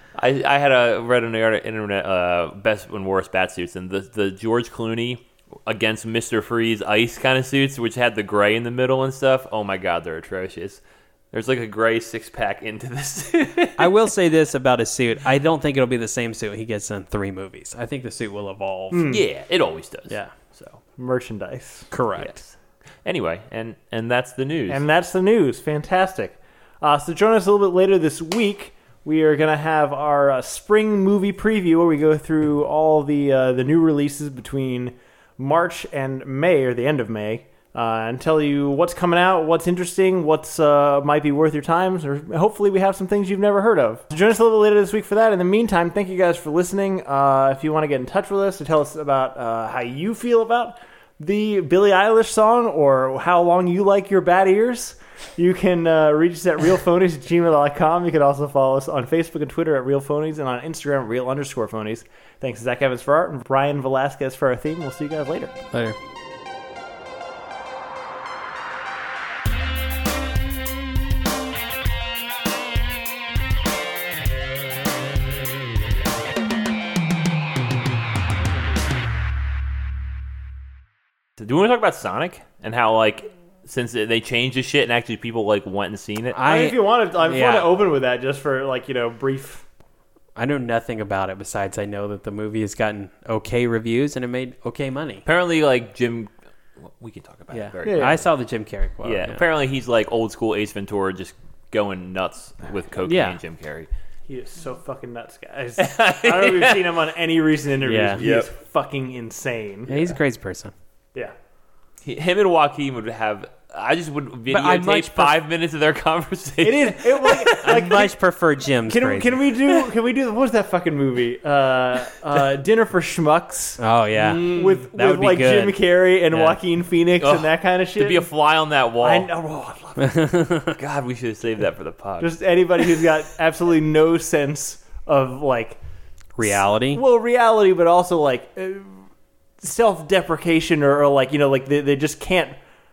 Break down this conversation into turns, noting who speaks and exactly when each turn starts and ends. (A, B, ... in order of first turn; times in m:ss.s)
0:00.2-0:10.8 A
0:11.3-0:14.0 A
0:13.8-0:19.1 B
0:18.9-0:19.2 C
0:19.0-0:20.8 A
0:21.0-0:21.9 C
0:21.9-0:22.4 B
0:22.2-0:22.5 A
0:23.0-0:24.8 A
0:24.7-1:05.5 C
1:05.7-1:06.0 B
1:21.4-1:26.4 A
1:26.3-1:27.7 B
1:26.4-1:29.6 C
1:30.4-1:35.2 B
1:35.2-1:38.3 A
1:37.5-1:39.4 B
1:37.8-1:38.2 C
1:39.0-1:43.9 A
1:43.0-1:43.4 B
1:44.3-1:49.9 C
1:45.8-1:46.9 A
1:47.8-1:48.2 B
1:48.2-1:48.5 A
1:49.9-1:50.7 B
1:49.9-1:50.2 A
1:52.0-1:57.9 A
1:54.5-1:55.4 B
1:56.6-1:58.1 C
1:57.6-1:59.4 B
1:58.9-2:08.3 C
2:03.8-2:05.8 B
2:04.2-2:04.7 A
2:06.3-2:06.6 B
2:07.2-2:09.3 A
2:09.0-2:10.2 C
2:10.0-2:10.8 B
2:10.8-2:12.3 A
2:12.2-2:15.8 C
2:16.4-2:17.0 B
2:16.4-2:19.0 C
2:19.6-2:22.5 C